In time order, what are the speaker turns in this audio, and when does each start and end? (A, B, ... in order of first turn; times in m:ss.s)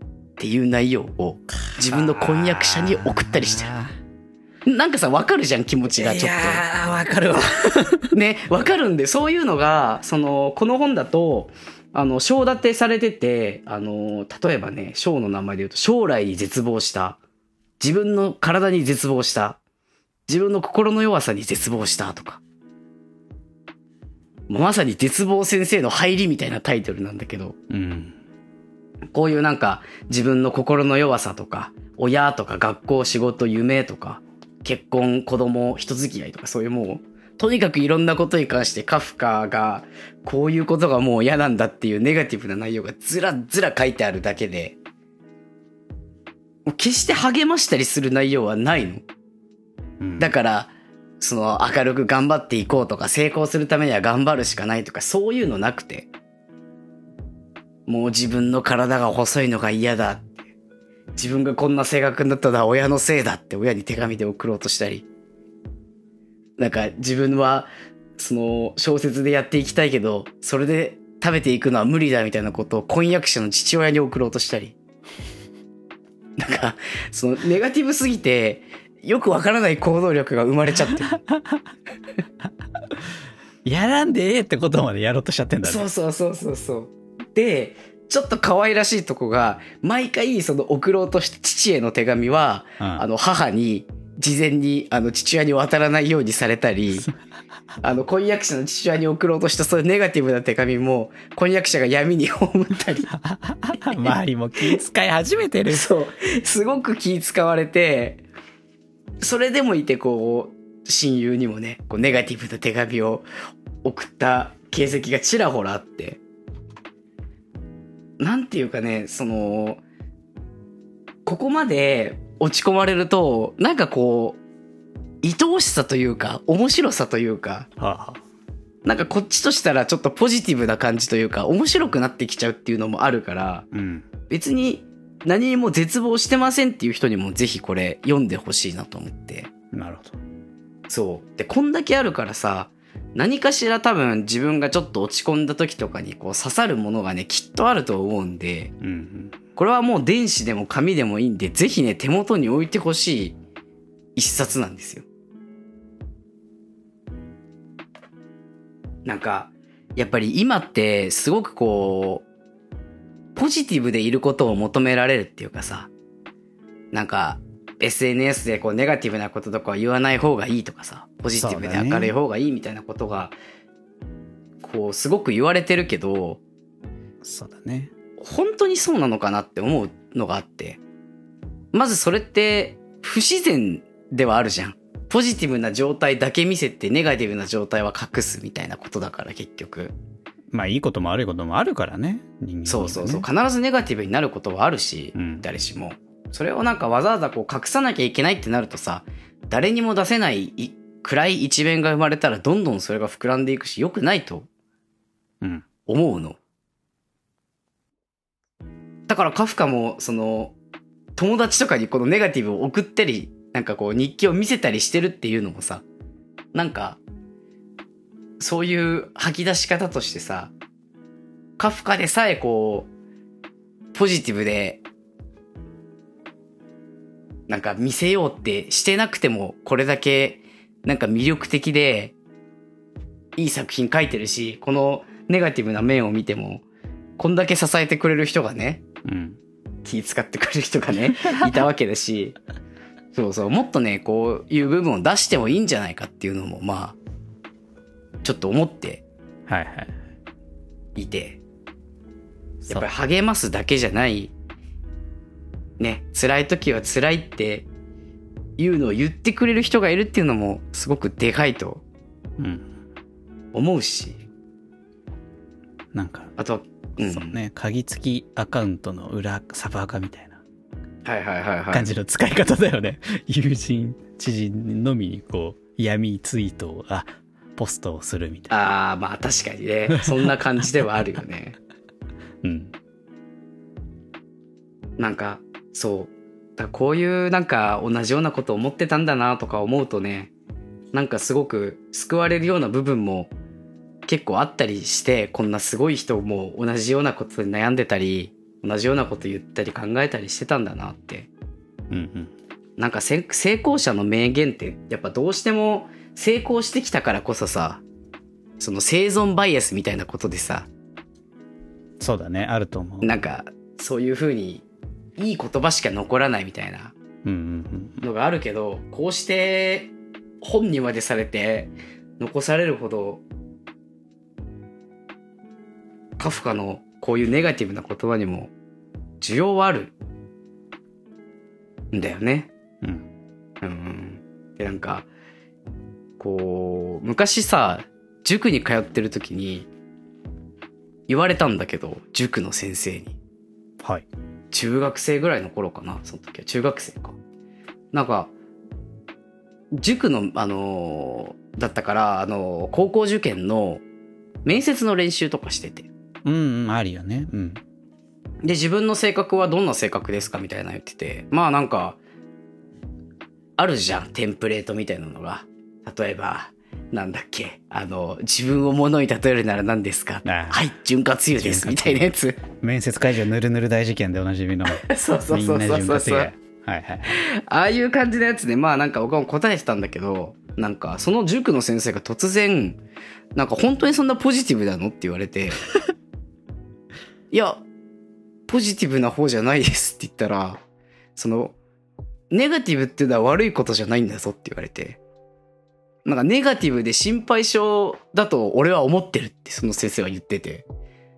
0:00.4-0:03.7 A
0:01.8-0:03.9 B
0:04.6-0:06.6 A
0:05.9-0:08.1 B
0:08.0-0:17.2 A
0:17.8-0:19.6 A
0:20.3-0:22.4 A
0:24.5-0:27.6 A
0:27.7-0:28.2 B
0:29.1-0:44.8 A
0:46.6-0:49.0 A
0:50.0-0:50.3 B
0:50.2-0:56.1 A
0:57.9-1:00.5 A
1:01.2-1:05.0 A
1:06.6-1:14.8 A
1:16.4-1:21.2 A
1:21.3-1:21.6 B
1:23.6-1:25.8 B
1:25.6-1:37.1 A
1:32.8-1:33.0 B
1:37.8-1:43.1 A
1:43.1-1:45.9 B
1:45.7-1:48.2 A
1:49.2-1:53.3 A
1:53.8-1:56.2 A
1:58.2-1:59.8 A
2:01.2-2:04.4 A
2:05.2-2:07.7 A
2:07.8-2:08.2 B
2:08.8-2:13.6 A
2:13.7-2:14.0 B
2:14.3-2:19.5 A
2:19.7-2:20.2 B
2:20.9-2:28.7 A
2:28.8-2:29.4 B
2:29.6-2:33.4 A
2:34.2-2:35.0 A
2:39.0-2:42.2 A
2:43.3-2:45.9 A
2:46.9-2:53.3 A
2:51.4-2:52.1 B
2:54.6-2:56.4 A
2:57.2-2:57.9 B
2:58.2-3:00.8 A
3:01.7-3:09.9 A
3:10.5-3:13.2 B
3:12.6-3:24.5 A
3:15.1-3:15.4 B
3:25.8-3:26.4 A
3:29.1-3:30.5 A
3:31.2-3:35.8 A
3:36.5-3:37.0 A
3:38.4-3:40.5 A
3:41.6-3:42.9 A
3:43.9-3:44.8 A
3:47.5-3:52.1 A
3:53.4-3:56.6 A
3:57.2-3:58.8 A
3:59.0-3:59.4 B
3:59.8-4:02.4 A
4:03.1-4:07.0 A
4:08.2-4:09.0 A
4:09.5-4:10.0 B
4:10.9-4:11.4 A
4:12.7-4:14.3 A
4:15.8-4:17.6 A
4:18.6-4:21.8 A
4:22.4-4:22.7 B
4:23.5-4:24.2 A
4:25.9-4:26.3 B
4:26.4-4:27.4 A
4:27.0-4:30.4 B
4:31.0-4:31.9 A
4:31.7-4:38.5 B
4:38.5-4:41.6 A
4:42.4-4:42.7 B
4:45.0-4:50.3 A
4:50.9-4:53.3 A
4:54.0-5:01.3 A
5:01.9-5:02.3 B
5:02.8-5:07.8 A
5:08.6-5:10.7 A
5:12.0-5:13.2 B
5:13.0-5:14.6 A
5:15.2-5:16.9 A
5:17.2-5:18.0 B
5:18.0-5:23.2 A
5:26.2-5:28.5 A
5:29.2-5:29.9 A
5:31.9-5:32.5 A
5:32.8-5:33.1 B
5:33.6-5:35.1 A
5:36.2-5:39.7 A
5:41.1-5:43.2 A
5:43.8-5:44.0 B
5:44.5-5:47.2 A
5:47.9-5:48.3 A
5:49.7-5:53.8 A
5:54.4-5:55.9 A
5:56.2-5:57.6 B
5:58.4-6:02.0 A
6:03.6-6:12.4 A
6:10.2-6:10.6 B
6:11.4-6:17.2 B
6:14.7-6:16.3 A
6:17.1-6:22.8 A
6:23.3-6:25.6 A
6:27.3-6:27.6 A
6:28.5-6:30.6 A
6:31.2-6:31.6 A
6:32.3-6:35.0 A
6:36.0-6:40.6 A